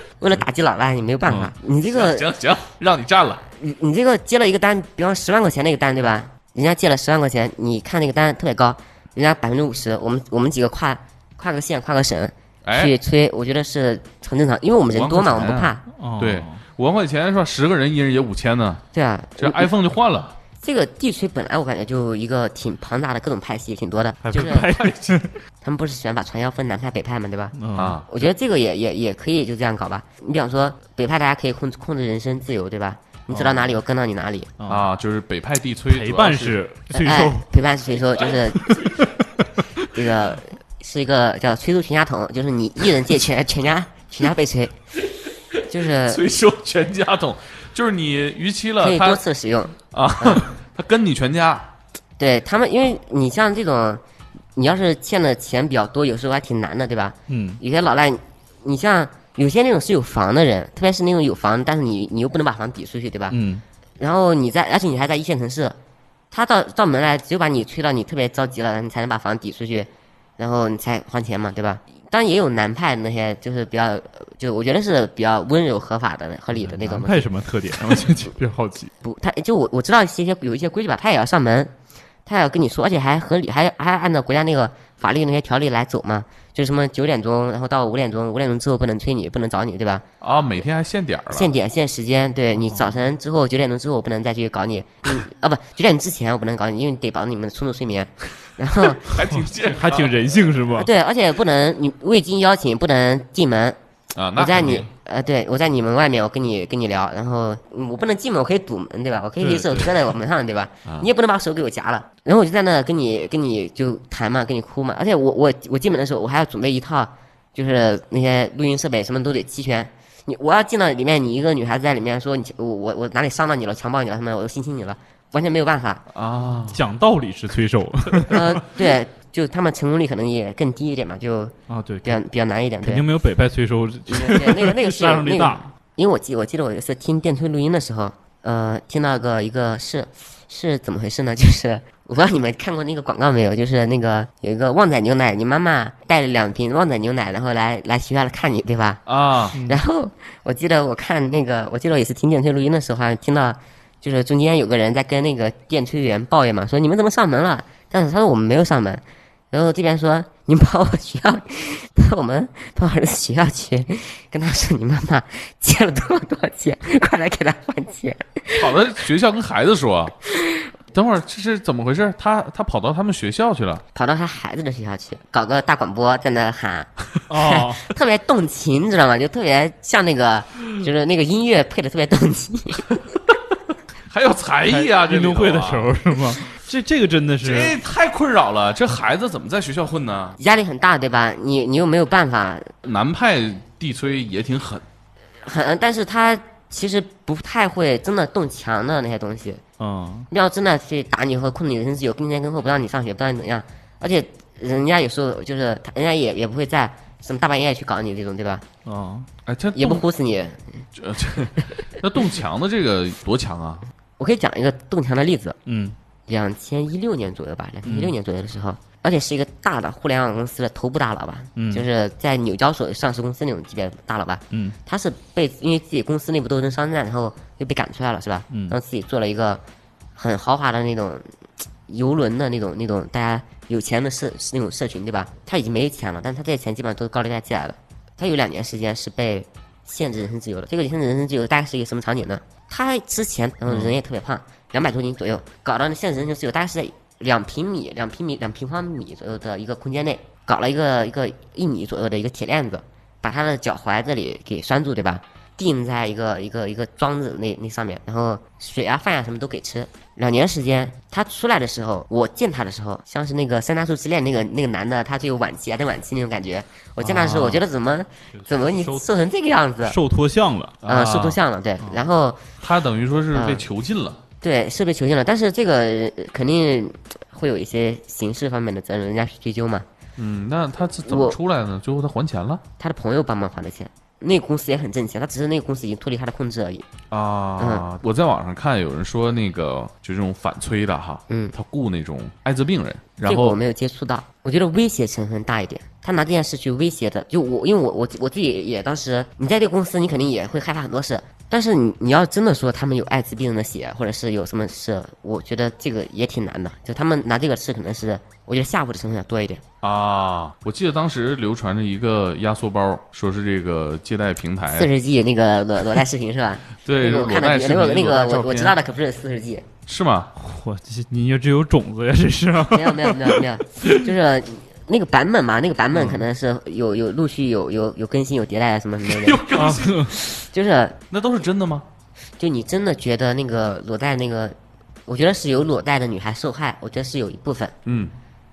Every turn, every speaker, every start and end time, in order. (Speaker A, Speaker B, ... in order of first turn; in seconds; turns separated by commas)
Speaker A: 0.2-2.3, Speaker B: 1.3-1.5, Speaker C: 1.9-3.4, Speaker A: 3.6-15.8, Speaker C: 12.6-12.9, Speaker C: 14.9-18.8, Speaker B: 15.9-16.6, Speaker A: 18.9-19.7, Speaker C: 19.4-20.3, Speaker A: 20.6-24.6, Speaker B: 24.2-25.2, Speaker C: 24.4-25.3, Speaker A: 25.6-27.5, Speaker B: 27.5-28.0, Speaker C: 27.7-28.1, Speaker A: 28.1-34.5, Speaker B: 33.3-33.7, Speaker B: 34.6-34.9, Speaker C: 34.7-36.6, Speaker B: 35.9-37.5, Speaker A: 36.9-38.8, Speaker B: 38.5-39.9, Speaker A: 39.9-44.7, Speaker A: 45.7-46.2, Speaker C: 46.0-49.2, Speaker A: 48.8-50.5, Speaker C: 49.9-51.7, Speaker A: 52.2-54.0, Speaker A: 54.5-63.4, Speaker B: 57.3-57.6, Speaker B: 63.3-63.6, Speaker A: 64.0-65.8, Speaker A: 66.3-77.3, Speaker B: 76.6-78.9, Speaker A: 79.0-81.7, Speaker A: 82.2-90.0, Speaker C: 90.2-91.5, Speaker A: 91.3-99.0, Speaker B: 92.6-93.0, Speaker C: 99.0-100.5, Speaker B: 99.3-100.9, Speaker A: 100.7-103.8, Speaker C: 104.2-104.9, Speaker A: 104.3-126.0, Speaker B: 109.4-109.9, Speaker C: 126.1-126.8, Speaker B: 126.7-128.7, Speaker A: 128.3-133.0, Speaker B: 131.7-132.2, Speaker B: 132.8-135.7, Speaker A: 134.1-149.0, Speaker C: 149.1-149.6, Speaker B: 149.5-149.8, Speaker A: 149.5-168.8, Speaker C: 168.5-170.1, Speaker A: 170.2-170.7, Speaker C: 170.9-173.8, Speaker A: 173.9-182.8, Speaker B: 177.3-177.8, Speaker C: 184.1-185.9, Speaker B: 184.7-187.8, Speaker C: 187.4-190.4, Speaker A: 190.4-192.7, Speaker C: 192.8-194.8, Speaker A: 195.4-199.6, Speaker B: 199.8-200.3, Speaker A: 200.3-208.6, Speaker B: 208.8-209.3, Speaker C: 209.4-210.0, Speaker A: 209.7-210.6, Speaker C: 210.9-213.8, Speaker A: 214.2-215.6, Speaker B: 215.7-215.9, Speaker A: 216.3-229.6, Speaker B: 217.8-218.1, Speaker B: 221.6-221.8, Speaker B: 224.5-224.8, Speaker B: 228.5-228.8, Speaker A: 230.2-231.2, Speaker A: 231.9-270.0, Speaker B: 267.0-267.6, Speaker B: 268.3-269.0, Speaker B: 269.8-270.8, Speaker C: 270.8-271.4, Speaker A: 270.9-272.4, Speaker C: 272.6-274.2, Speaker A: 273.3-273.6, Speaker A: 274.4-279.9, Speaker C: 280.2-282.6, Speaker A: 281.1-281.4, Speaker A: 282.8-286.9, Speaker C: 287.1-293.6, Speaker A: 287.6-287.9, Speaker A: 293.2-309.6, Speaker C: 309.8-314.9, Speaker A: 314.7-319.7, Speaker C: 316.8-318.8, Speaker C: 319.9-320.3, Speaker B: 320.4-324.0, Speaker A: 322.7-329.4, Speaker C: 329.1-330.2, Speaker B: 329.6-330.1, Speaker A: 330.3-331.0, Speaker C: 331.1-331.9, Speaker A: 332.4-334.5, Speaker A: 335.1-337.7, Speaker C: 337.9-338.1